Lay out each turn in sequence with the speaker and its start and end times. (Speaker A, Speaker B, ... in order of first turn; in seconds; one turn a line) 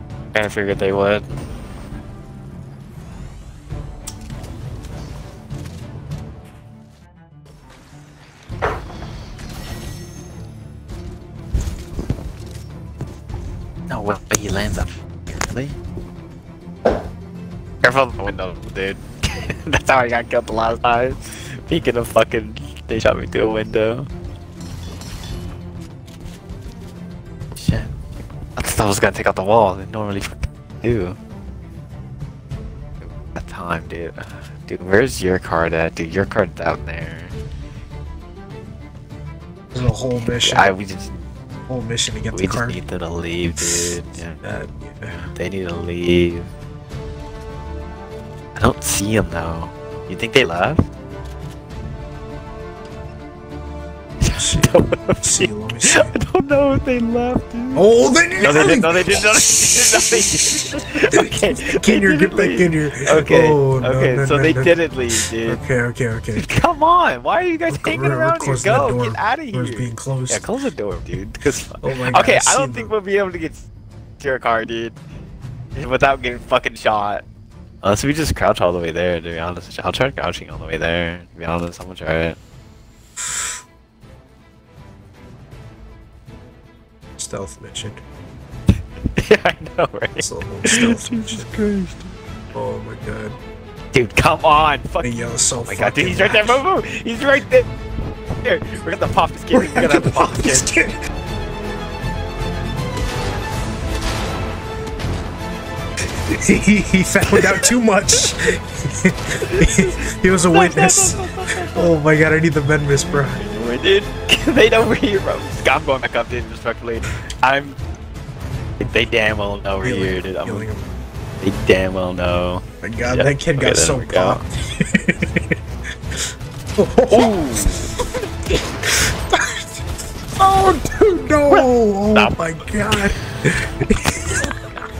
Speaker A: 0.3-1.3
Speaker A: 13.9-15.8
Speaker A: 17.8-24.1
Speaker A: 27.6-27.9
Speaker A: 28.6-31.2
Speaker A: 33.0-37.3
Speaker B: 39.7-40.7
Speaker A: 40.1-41.3
Speaker B: 41.7-42.8
Speaker A: 42.3-44.4
Speaker B: 44.4-45.2
Speaker A: 45.3-46.5
Speaker A: 48.5-50.9
Speaker A: 54.2-57.9
Speaker B: 54.4-56.1
Speaker B: 57.7-66.5
Speaker A: 58.4-65.6
Speaker A: 66.3-73.7
Speaker B: 67.7-70.5
Speaker B: 71.8-72.9
Speaker A: 74.2-75.0
Speaker A: 75.7-77.2
Speaker A: 77.8-82.4
Speaker B: 87.2-88.0
Speaker A: 89.2-92.1
Speaker B: 90.2-91.6
Speaker B: 92.5-93.4
Speaker A: 93.9-97.7
Speaker B: 95.0-96.6
Speaker A: 98.4-100.7
Speaker B: 99.5-101.0
Speaker B: 106.3-113.4
Speaker A: 107.3-108.3
Speaker A: 109.4-111.9
Speaker A: 113.1-117.8
Speaker A: 118.8-120.7
Speaker B: 119.8-120.9
Speaker A: 121.4-124.4
Speaker B: 122.8-125.5
Speaker B: 126.8-127.7
Speaker A: 127.1-128.0
Speaker B: 128.5-129.8
Speaker B: 130.4-134.5
Speaker A: 131.5-132.4